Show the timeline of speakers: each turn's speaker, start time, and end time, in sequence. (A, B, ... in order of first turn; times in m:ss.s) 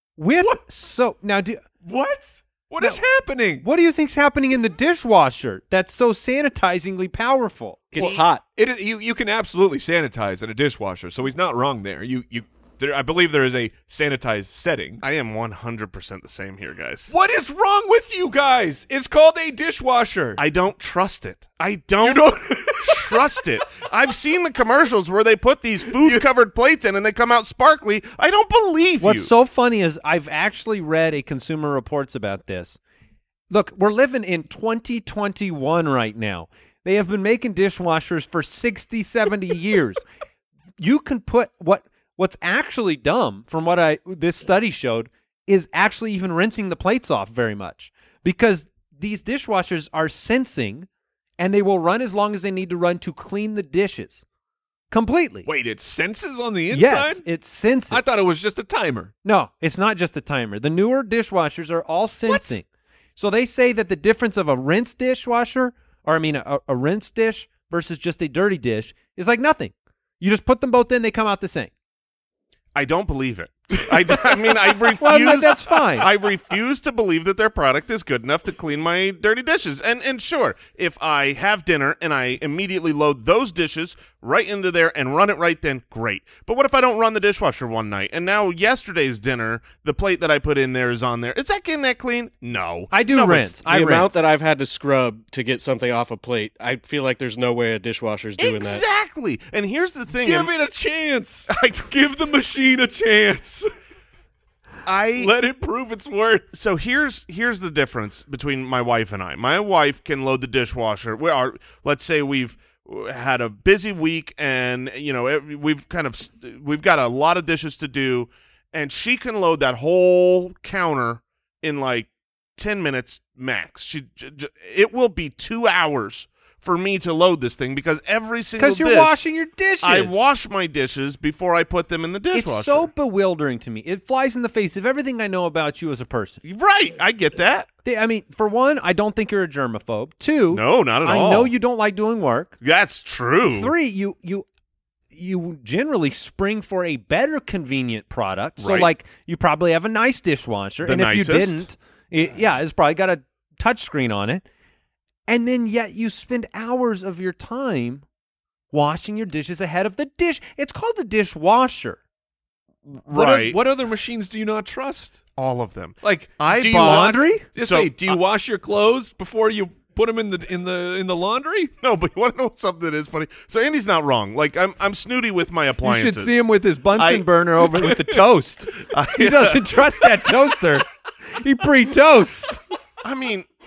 0:00.2-0:01.6 A
0:01.8-0:03.6 B
0:03.6-0:08.0 A
0:07.9-0:08.4 C
0:08.0-0:15.0 B
0:15.0-0:17.1 D
0:17.1-0:20.4 B
0:20.4-0:29.3 D
0:22.0-0:23.3 B
0:25.9-0:26.2 B
0:29.0-0:32.8 A
0:33.5-0:40.0 A
0:40.8-0:50.9 A
0:51.4-0:54.2 A
0:54.9-0:55.5 A
0:55.5-0:57.3 B
0:56.7-0:58.0 A
0:57.9-0:59.1 B
0:59.2-1:02.6 A
1:02.3-1:02.6 B
1:03.2-1:11.7 A
1:12.8-1:33.6 D
1:13.8-1:14.8 B
1:15.0-1:16.1 A
1:32.9-1:34.2 A
1:33.7-1:38.8 C
1:38.4-1:40.5 D
1:40.2-1:43.7 B
1:41.5-1:41.9 D
1:44.8-1:45.3 D
1:45.2-1:46.5 B
1:46.5-2:09.2 D
2:08.6-2:10.2 A
2:09.8-2:12.9 D
2:12.3-2:16.4 A
2:16.4-2:17.7 D
2:17.8-2:22.6 A
2:20.5-2:21.5 D
2:22.6-2:23.7 D
2:23.5-2:24.5 A
2:25.1-2:34.4 A
2:28.6-2:28.9 D
2:30.8-2:31.7 D
2:35.3-2:38.0 A
2:38.7-2:42.0 A
2:42.9-2:43.6 D
2:43.1-2:45.2 B
2:45.4-2:48.2 D
2:46.0-2:51.7 B
2:46.8-2:47.5 A
2:51.8-2:56.4 D
2:55.8-3:02.6 A
2:57.0-2:57.3 D
2:58.9-2:59.8 D
3:03.0-3:03.5 D